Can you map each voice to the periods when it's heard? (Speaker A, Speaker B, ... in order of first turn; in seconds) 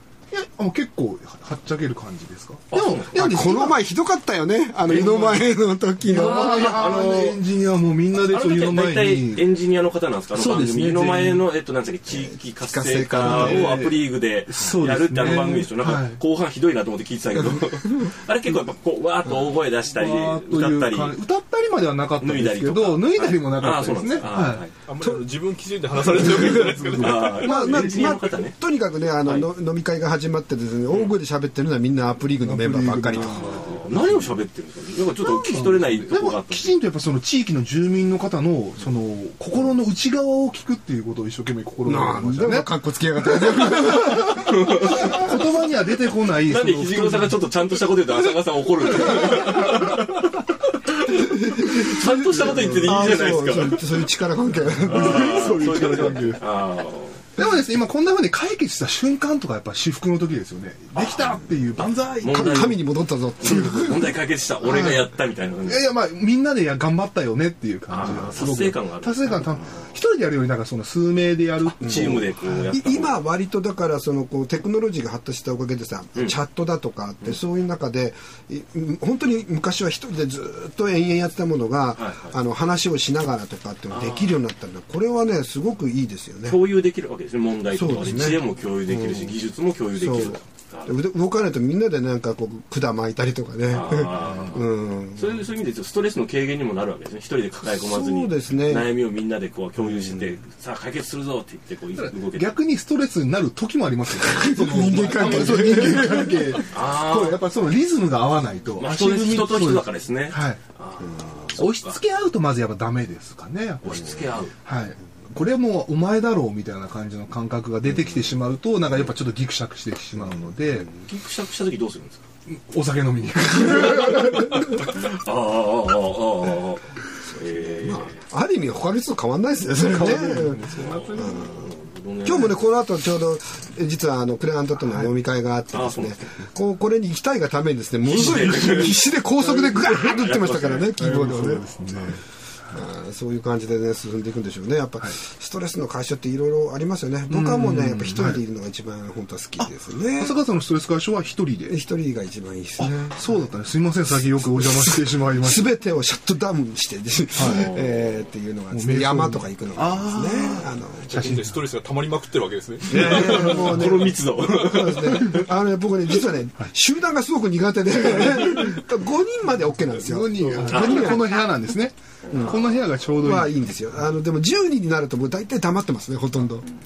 Speaker A: 0.3-3.8, 6.0-9.5, 10.3-11.5, 13.2-16.2, 19.9-24.7, 26.6-28.2, 32.4-34.4, 35.2-42.7, 43.3-44.4, 45.0-47.4, 52.5-53.4, 54.6-56.4, 57.4-62.8, 64.6-65.1, 65.6-72.8, 94.1-94.4, 102.0-110.6, 111.6-120.9, 122.5-124.7, 129.8-131.4, 134.8-135.1, 141.0-142.8, 147.3-148.4, 149.6-151.8, 152.8-155.7, 157.4-157.7, 158.7-161.7, 163.6-163.9, 169.9-173.8
Speaker B: 2.7-3.3, 4.9-5.4, 6.2-7.2, 8.2-21.2, 22.2-24.7, 27.0-28.6, 29.2-29.5, 30.9-31.1, 33.2-36.7, 44.5-45.4, 46.4-54.1, 54.9-57.2, 61.0-62.8, 63.4-65.9, 67.9-70.0, 71.6-73.2, 82.0-82.4, 83.9-84.4, 86.5-91.0, 93.7-102.5, 106.7-107.4, 108.8-112.0, 113.8-114.5, 121.0-122.2, 123.6-128.2, 130.8-132.6, 135.7-136.4, 138.0-140.9, 157.4-158.3, 162.9-165.5, 170.6-171.2, 172.3-172.7
Speaker C: 3.1-7.4, 12.1-13.7, 17.4-18.1, 25.0-25.3, 26.1-33.7, 41.9-44.5, 51.2-56.2, 62.3-64.2, 71.8-86.7, 87.7-89.4, 89.9-95.5, 97.6-98.9, 99.8-100.4, 104.2-106.7, 111.0-111.6, 117.9-118.2, 120.2-121.0, 127.3-130.7, 131.2-142.2, 142.7-150.4, 151.6-161.2, 162.9-171.2, 172.3-172.6, 173.2-176.7
Speaker D: 24.8-27.4, 161.1-163.6